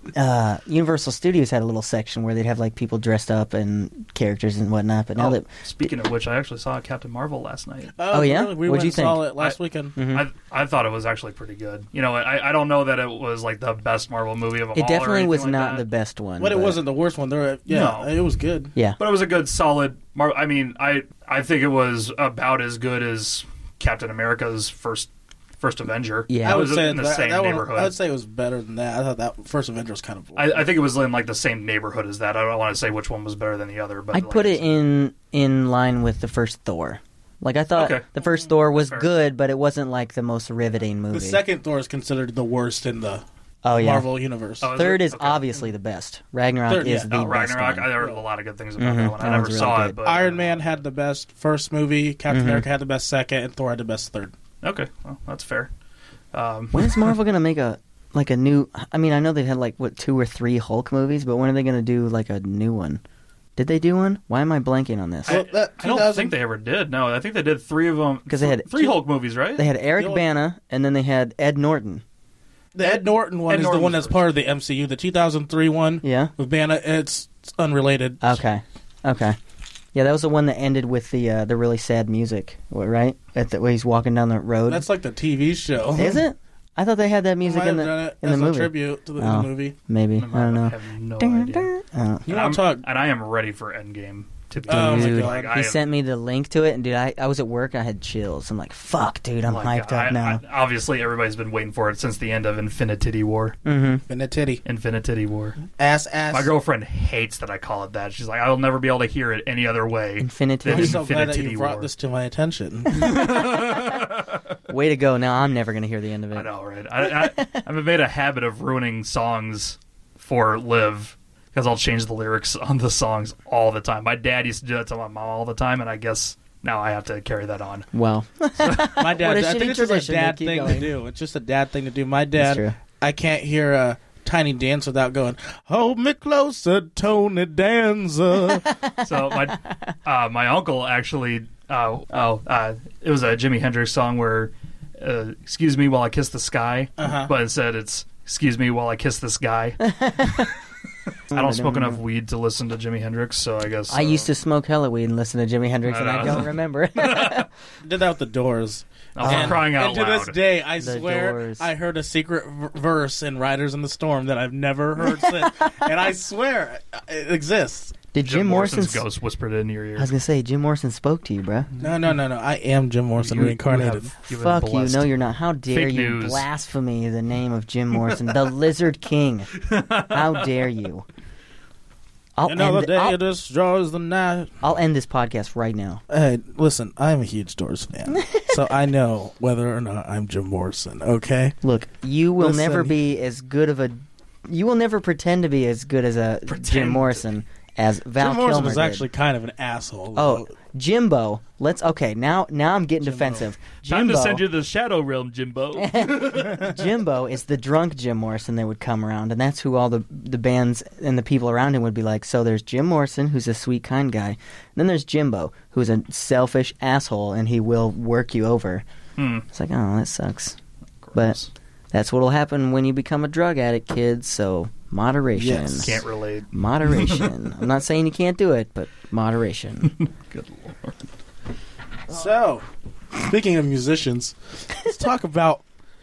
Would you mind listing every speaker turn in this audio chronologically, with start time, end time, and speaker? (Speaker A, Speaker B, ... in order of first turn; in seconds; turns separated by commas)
Speaker A: 0.1-5.5, Speaker B: 5.2-7.9, Speaker C: 8.0-9.9, Speaker A: 8.1-9.2, Speaker B: 9.4-15.8, Speaker A: 9.9-10.2, Speaker A: 14.7-16.8, Speaker C: 16.4-18.7, Speaker B: 17.7-18.1, Speaker B: 19.0-27.9, Speaker A: 26.3-26.7, Speaker C: 26.4-30.6, Speaker B: 30.4-34.7, Speaker A: 34.1-41.4, Speaker B: 37.7-38.0, Speaker B: 38.6-39.1, Speaker C: 41.1-44.7, Speaker A: 43.6-44.1, Speaker B: 44.6-45.5, Speaker A: 44.7-47.9, Speaker C: 46.7-47.1, Speaker B: 47.1-50.8, Speaker A: 48.8-50.0, Speaker C: 50.0-54.3, Speaker A: 52.3-52.7, Speaker B: 54.6-55.7, Speaker B: 56.3-57.1, Speaker A: 56.7-63.0, Speaker A: 63.6-65.4, Speaker B: 65.2-69.7, Speaker C: 65.3-66.3, Speaker A: 68.3-69.0, Speaker A: 69.5-72.0, Speaker C: 70.0-70.2, Speaker C: 72.7-78.4, Speaker B: 72.8-74.2, Speaker A: 76.0-76.3, Speaker A: 78.2-79.4, Speaker A: 79.9-84.8, Speaker C: 84.7-86.2, Speaker A: 85.9-92.2, Speaker C: 87.4-89.7, Speaker B: 90.2-91.7, Speaker C: 92.3-92.8, Speaker B: 92.3-95.8, Speaker C: 94.7-95.5, Speaker A: 94.7-100.4, Speaker B: 99.5-103.5, Speaker A: 103.6-104.0, Speaker C: 104.1-104.6, Speaker B: 104.6-105.6, Speaker C: 105.8-106.5, Speaker B: 106.3-111.9, Speaker A: 110.2-111.0, Speaker C: 110.7-113.1, Speaker B: 112.9-114.5, Speaker A: 113.0-113.9, Speaker A: 114.7-116.5, Speaker B: 116.3-127.9, Speaker A: 117.0-117.6, Speaker A: 127.9-130.9, Speaker B: 128.6-129.0, Speaker C: 128.9-138.7, Speaker A: 132.4-132.8, Speaker A: 138.5-139.6, Speaker B: 139.0-150.5, Speaker C: 147.0-147.3, Speaker A: 149.8-150.5, Speaker B: 151.3-154.3, Speaker A: 151.3-152.0, Speaker A: 153.9-157.5, Speaker B: 155.8-157.5, Speaker C: 157.8-168.0, Speaker B: 159.2-160.3, Speaker A: 159.2-159.7, Speaker A: 160.8-161.7, Speaker A: 165.0-165.9, Speaker A: 168.1-169.0, Speaker B: 168.2-170.1, Speaker A: 170.0-171.7, Speaker C: 171.8-174.1, Speaker B: 173.2-175.1, Speaker A: 174.3-179.5, Speaker B: 175.7-176.4, Speaker B: 179.5-180.5, Speaker A: 180.1-181.1, Speaker A: 182.4-183.2, Speaker C: 182.4-184.5, Speaker A: 184.6-186.0, Speaker C: 186.1-191.6, Speaker A: 188.1-188.6, Speaker A: 191.6-199.1, Speaker C: 192.4-192.9, Speaker B: 196.5-197.2, Speaker C: 198.2-200.5, Speaker A: 200.1-204.4, Speaker C: 203.0-203.5, Speaker B: 203.8-206.7, Speaker A: 205.8-218.8, Speaker B: 219.2-219.4, Speaker A: 219.5-220.6, Speaker B: 221.0-221.5, Speaker A: 221.9-229.9, Speaker C: 225.3-226.0, Speaker B: 225.8-227.3, Speaker B: 229.8-231.1, Speaker C: 232.1-232.7, Speaker C: 233.2-235.6